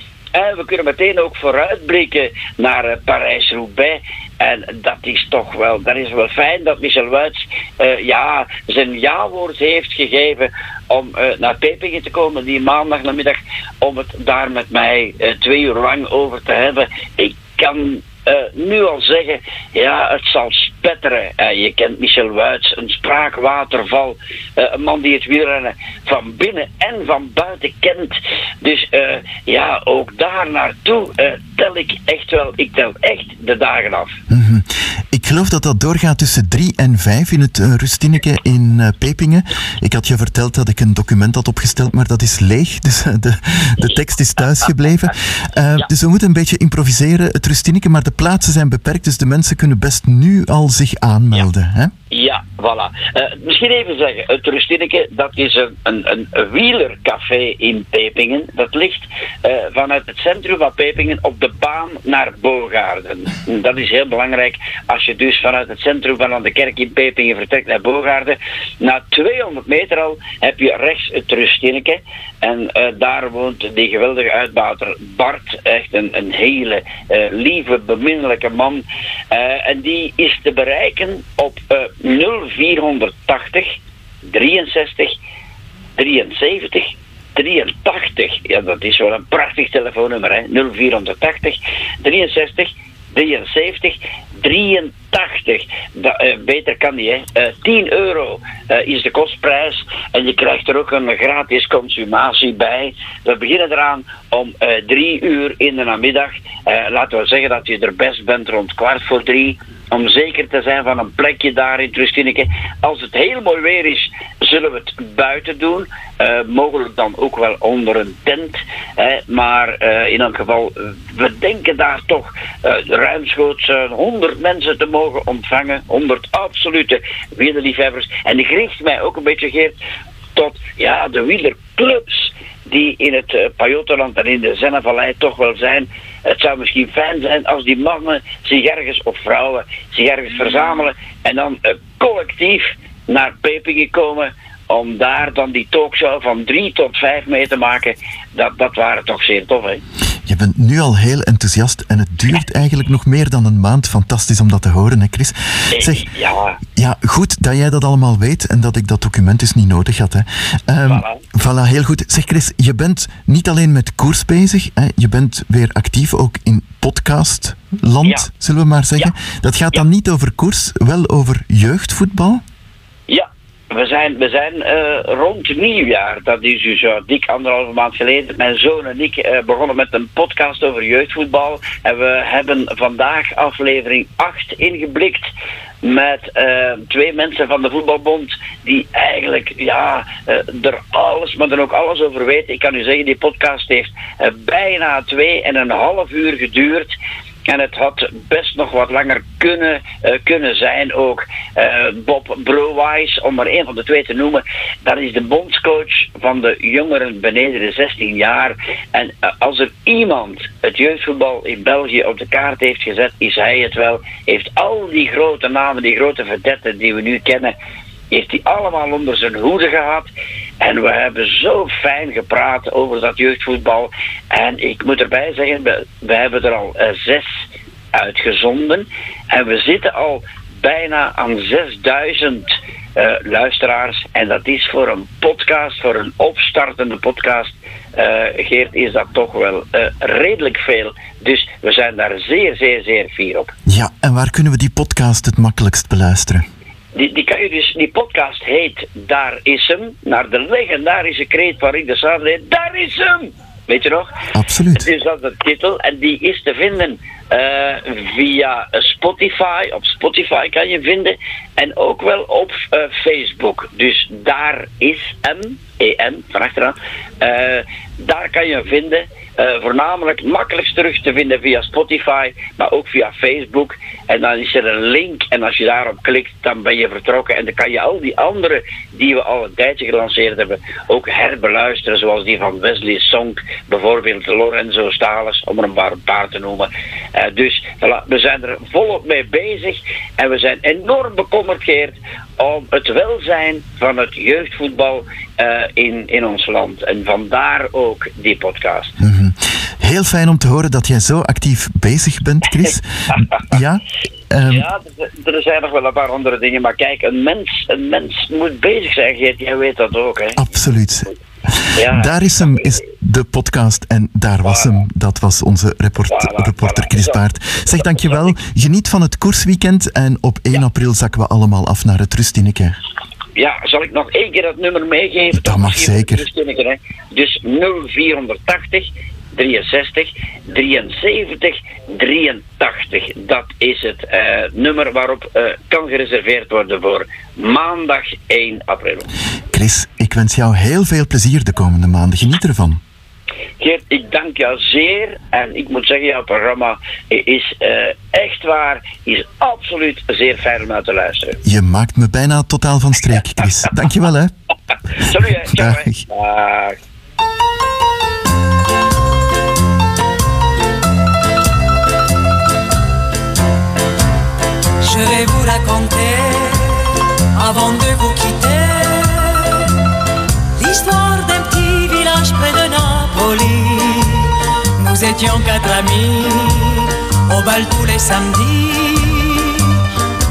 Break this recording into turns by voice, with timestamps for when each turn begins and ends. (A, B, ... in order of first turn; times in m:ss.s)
0:00.4-0:34.2 A
0:34.3-0:51.9 B
0:52.1-1:23.7 A
1:24.3-1:25.2 A
1:26.0-2:09.8 A
2:10.4-2:29.8 A
2:30.3-2:36.1 B
2:35.8-2:36.6 A
2:36.8-2:52.4 B
2:40.9-2:41.2 A
2:53.1-3:05.3 A
3:05.8-3:16.9 A
3:17.5-3:37.5 A
3:38.1-3:40.1 A
3:40.6-3:47.4 A
3:48.0-4:03.5 A
4:03.7-4:06.4 B
4:07.0-4:14.1 A
4:14.3-4:14.9 B
4:14.8-4:58.9 A
4:59.0-5:04.7 B
5:04.5-5:10.4 A
5:10.4-5:22.8 B
5:11.8-5:12.7 A
5:16.1-5:17.2 A
5:17.8-5:18.2 A
5:23.4-5:39.1 A
5:25.4-5:26.2 B
5:39.5-5:42.8 B
5:43.6-5:51.4 A
5:51.4-5:54.3 B
5:55.1-5:56.8 A
5:55.2-5:56.0 B
6:04.8-6:09.7 C
6:10.6-6:19.7 C